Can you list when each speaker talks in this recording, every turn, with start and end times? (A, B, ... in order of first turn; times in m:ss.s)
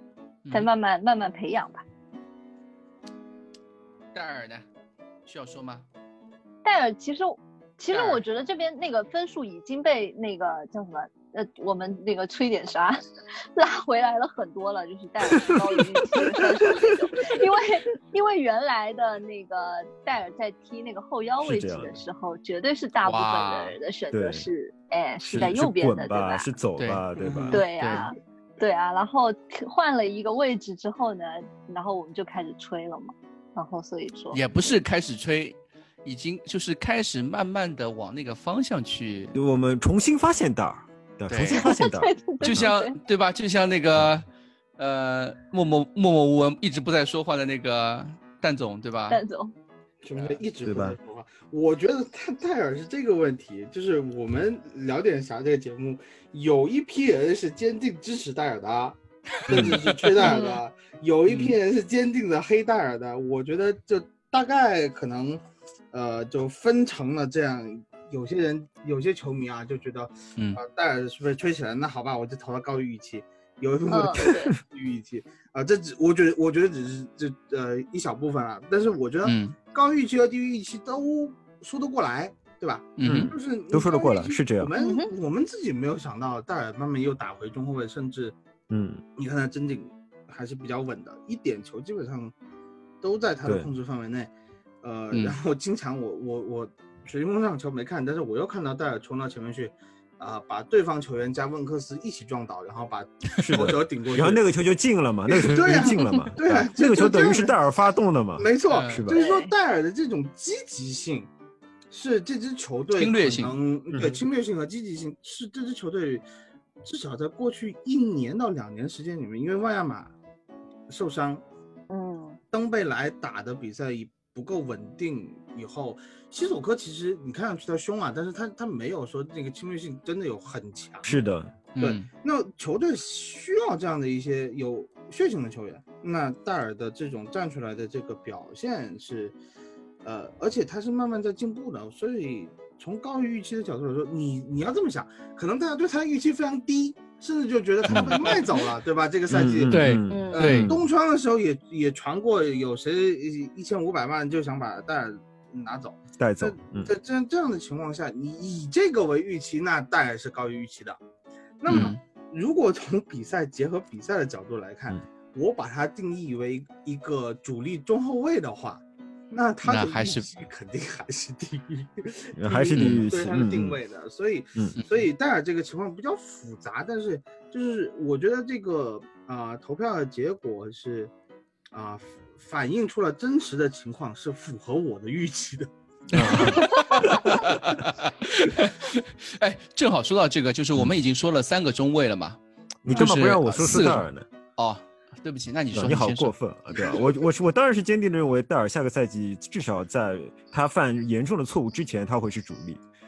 0:00.5-0:01.8 A
0:04.1-0:04.6 B
0:05.3-0:05.9 B
0:06.6-0:13.0 A
0:07.9-0:08.2 B
0:13.6-0:26.5 A
0:21.4-0:22.0 C
0:23.0-0:23.8 B
0:24.1-0:24.5 C
0:25.3-0:27.6 C
0:26.8-0:28.1 B
0:27.2-0:27.6 D
0:27.5-0:34.4 A
0:34.3-0:39.4 B
0:39.3-0:42.7 C
0:41.3-0:41.7 B
0:41.5-0:43.0 A
0:42.4-0:49.2 B
0:49.1-0:49.5 A
0:50.0-0:59.0 D
0:50.6-0:51.0 C
0:59.4-1:00.0 B
0:59.5-1:28.4 D
0:59.5-1:00.0 C
1:00.2-1:00.6 A
1:01.3-1:01.6 B
1:13.9-1:14.6 A
1:19.2-1:19.6 B
1:23.0-1:23.3 B
1:23.0-1:24.7 C
1:24.8-1:25.1 A
1:28.7-1:29.0 C
1:29.2-1:32.3 D
1:33.0-1:44.4 D
1:33.4-1:33.7 C
1:35.1-1:35.4 B
1:43.4-1:49.2 C
1:45.3-1:47.6 D
1:48.4-1:51.3 D
1:48.7-1:49.0 B
1:49.1-1:49.5 A
1:51.9-1:56.2 D
1:53.0-1:53.6 B
1:53.9-1:54.2 C
1:56.8-2:00.1 D
2:00.9-2:01.4 D
2:01.9-2:02.4 A
2:02.5-2:11.2 D
2:11.0-2:11.5 C
2:11.8-2:12.1 B
2:11.8-2:19.4 D
2:20.0-2:41.0 D
2:27.9-2:28.3 C
2:29.3-2:30.8 C
2:29.7-2:30.8 B
2:30.1-2:30.6 A
2:36.2-2:36.9 C
2:41.6-3:01.1 D
2:41.7-2:42.0 B
2:49.6-2:50.3 B
2:52.4-2:53.8 C
2:52.7-2:53.0 B
2:54.8-2:55.0 B
3:01.7-3:05.7 D
3:06.1-3:16.3 B
3:06.1-3:07.5 C
3:06.2-3:06.6 D
3:12.8-3:14.3 C
3:15.7-3:22.8 C